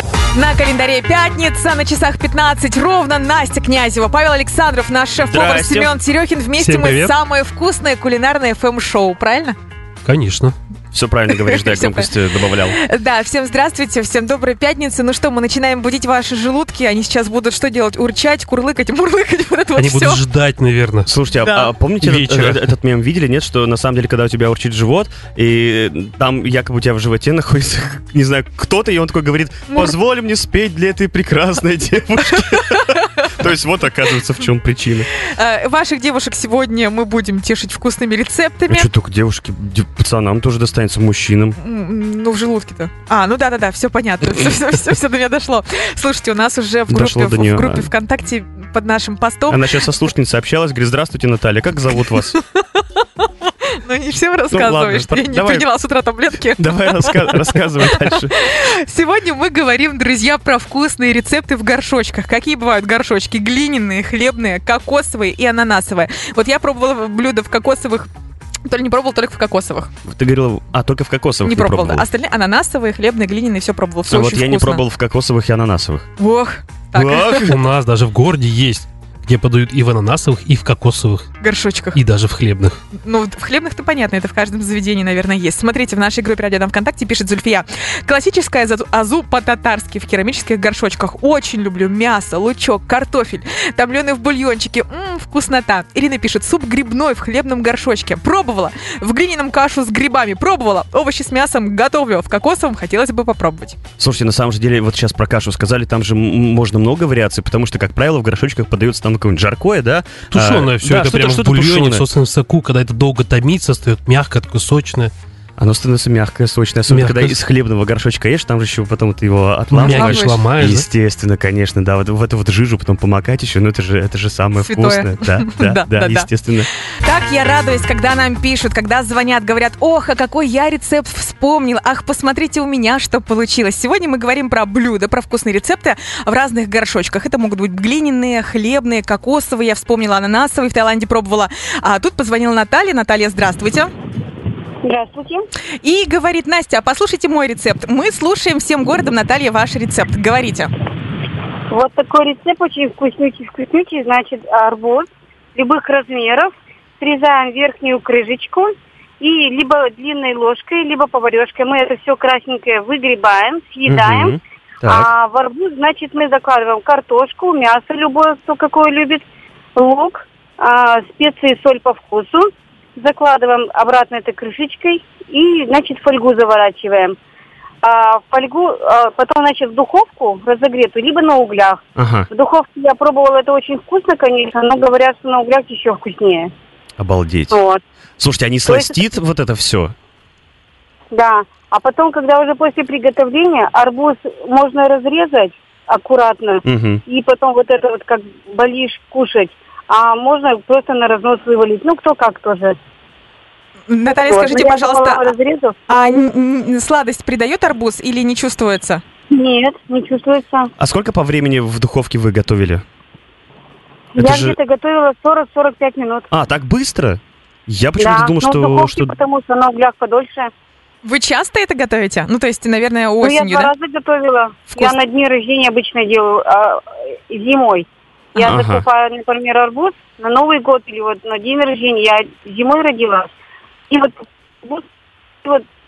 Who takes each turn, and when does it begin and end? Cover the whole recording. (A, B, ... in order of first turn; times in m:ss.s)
0:00.3-0:09.6 A
0:05.3-0:06.0 B
0:06.6-0:07.1 C
0:10.0-0:10.6 C
0:10.9-0:12.8 B
0:11.3-0:12.1 A
0:12.7-0:20.2 A
0:19.8-0:21.1 C
0:21.1-0:35.1 B
0:21.4-0:21.7 A
0:22.0-0:22.7 C
0:29.7-0:29.9 A
0:32.5-0:33.0 A
0:35.1-0:38.9 A
0:38.7-0:41.6 B
0:41.6-0:49.8 A
0:46.9-0:47.9 B
0:49.5-0:52.4 B
0:52.3-1:08.1 A
0:54.5-0:55.7 B
0:56.6-0:58.3 B
1:08.6-1:09.9 A
1:10.0-1:12.0 B
1:11.4-1:14.8 A
1:14.1-1:16.1 B
1:16.2-1:17.5 A
1:16.9-1:17.6 B
1:17.4-1:21.3 C
1:21.4-1:22.0 A
1:21.9-1:22.8 C
1:22.9-1:43.8 A
1:44.0-1:52.0 B
1:50.3-1:55.1 C
1:55.6-2:06.7 B
1:56.9-1:57.4 C
1:59.7-2:00.8 C
1:59.8-2:00.4 A
2:04.6-2:06.3 A
2:07.0-2:23.9 A
2:24.8-2:25.4 D
2:25.8-2:30.7 A
2:31.7-2:49.2 D
2:43.9-2:45.1 B
2:49.8-2:57.1 D
2:57.8-3:06.5 D
3:02.0-3:02.3 B
3:07.0-3:07.5 B
3:07.5-3:07.8 D
3:08.2-3:09.9 B
3:08.6-3:08.9 D
3:11.1-3:22.8 D
3:16.6-3:17.0 B
3:23.9-3:25.3 A
3:24.1-3:26.2 D
3:25.9-3:29.0 A
3:29.3-3:30.7 D
3:30.8-3:32.8 B
3:34.1-3:36.3 D
3:34.2-3:34.6 B
3:36.3-3:39.1 B
3:38.0-3:40.5 D
3:41.0-3:43.7 A
3:43.2-3:53.3 D
3:48.4-3:48.8 B
3:53.9-3:54.8 D